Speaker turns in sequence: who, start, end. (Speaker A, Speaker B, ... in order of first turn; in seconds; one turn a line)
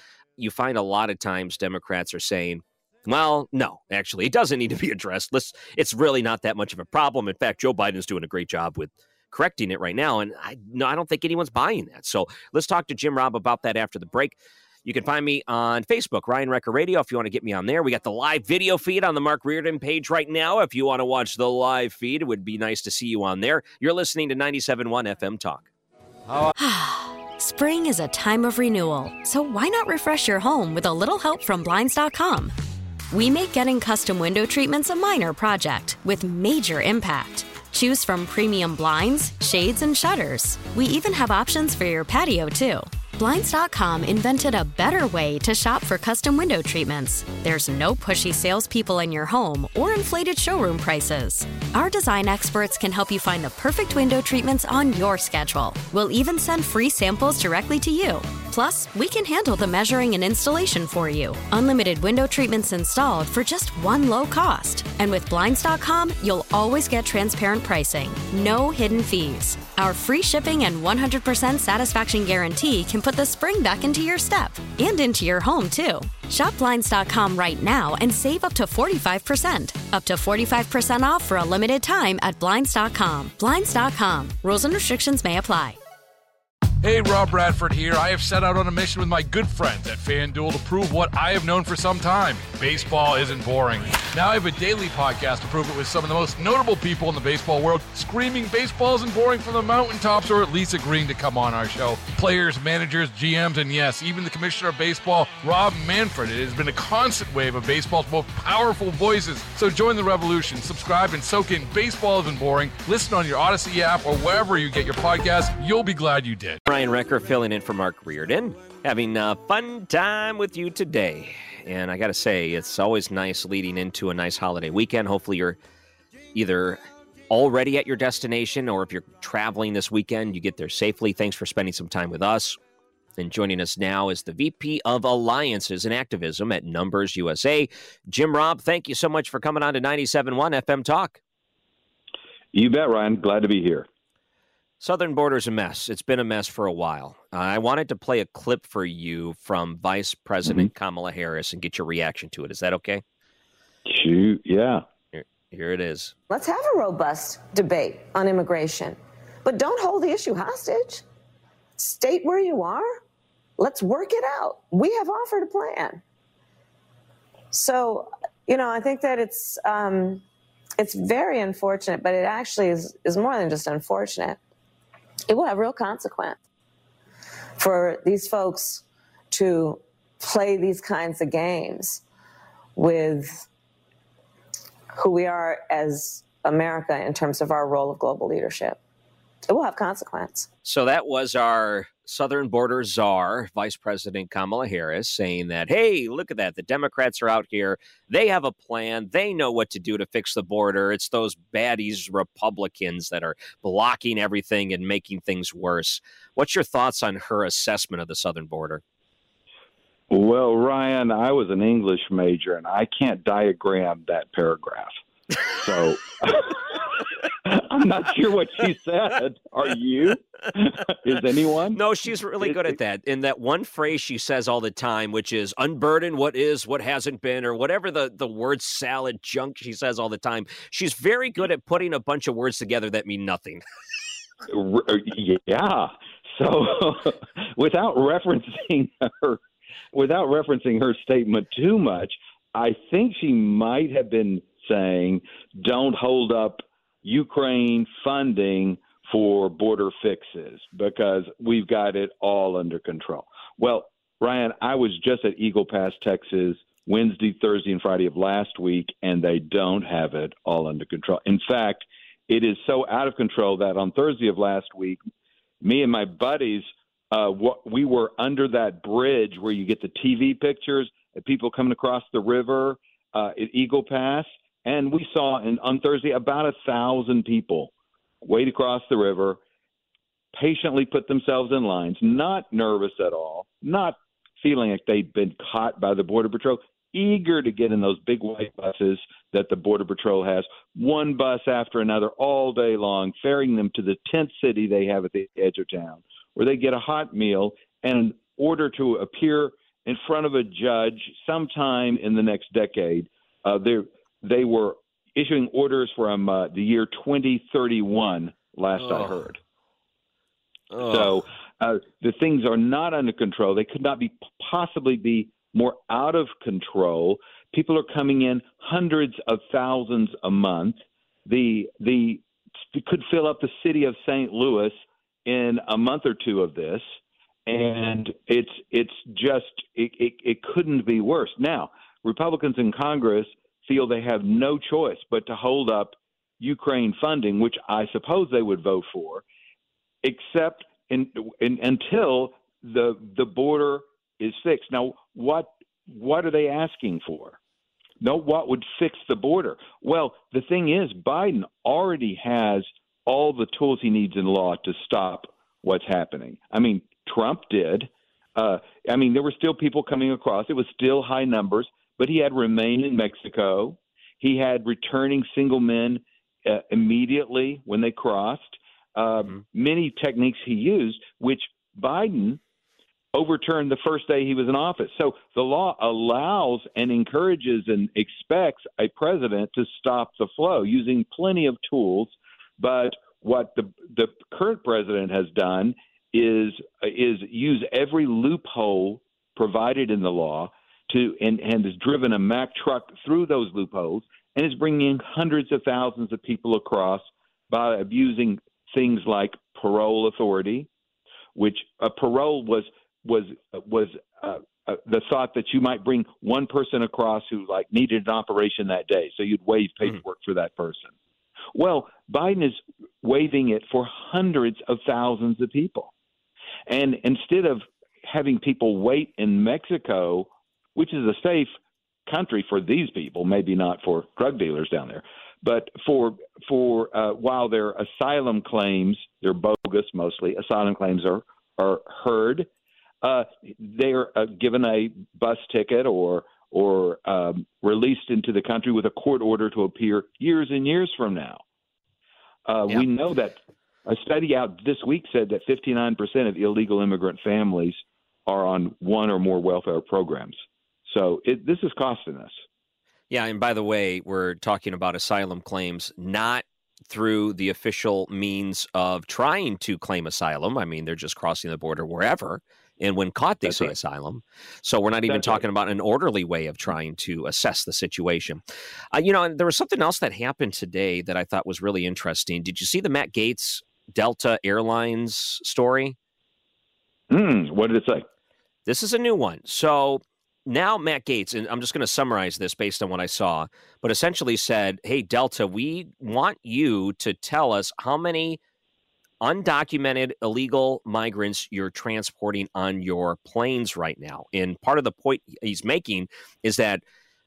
Speaker A: 0.4-25.7
Speaker B: 26.6-32.5
Speaker B: 33.1-85.8
Speaker C: 86.8-116.6
Speaker A: 116.7-125.6
Speaker A: 126.3-132.6
Speaker A: 133.2-141.2
Speaker D: 142.5-143.9
Speaker A: 144.8-153.0
Speaker D: 153.8-154.8
Speaker A: 155.1-156.1
Speaker E: 156.3-161.0
Speaker E: 161.8-163.0
Speaker E: 163.6-166.0
Speaker E: 167.5-170.2
Speaker E: 170.8-174.4
Speaker E: 175.3-176.4
Speaker E: 177.6-182.0
Speaker E: 182.8-183.5
Speaker E: 184.9-188.8
Speaker E: 189.4-190.5
Speaker A: 190.6-208.8
Speaker D: 210.1-215.0
Speaker D: 215.6-216.9
Speaker D: 217.4-221.8
Speaker A: 221.7-233.6
Speaker D: 222.4-222.7
Speaker D: 234.5-239.4
Speaker D: 239.9-265.0
Speaker D: 265.6-279.4
Speaker D: 280.3-309.4
Speaker A: 308.8-309.2
Speaker A: 310.7-311.1
Speaker D: 310.8-326.9
Speaker D: 327.4-339.2
Speaker D: 340.0-347.4
Speaker D: 348.0-372.4
Speaker D: 373.1-400.7
Speaker D: 401.3-410.9
Speaker D: 411.5-415.9
Speaker D: 416.7-421.5
Speaker D: 422.1-432.5
Speaker D: 433.0-441.4
Speaker D: 442.4-452.4
Speaker A: 453.1-475.9
Speaker D: 463.4-463.7
Speaker D: 465.1-465.4
Speaker D: 477.1-478.1
Speaker A: 478.6-488.4
Speaker A: 489.2-496.8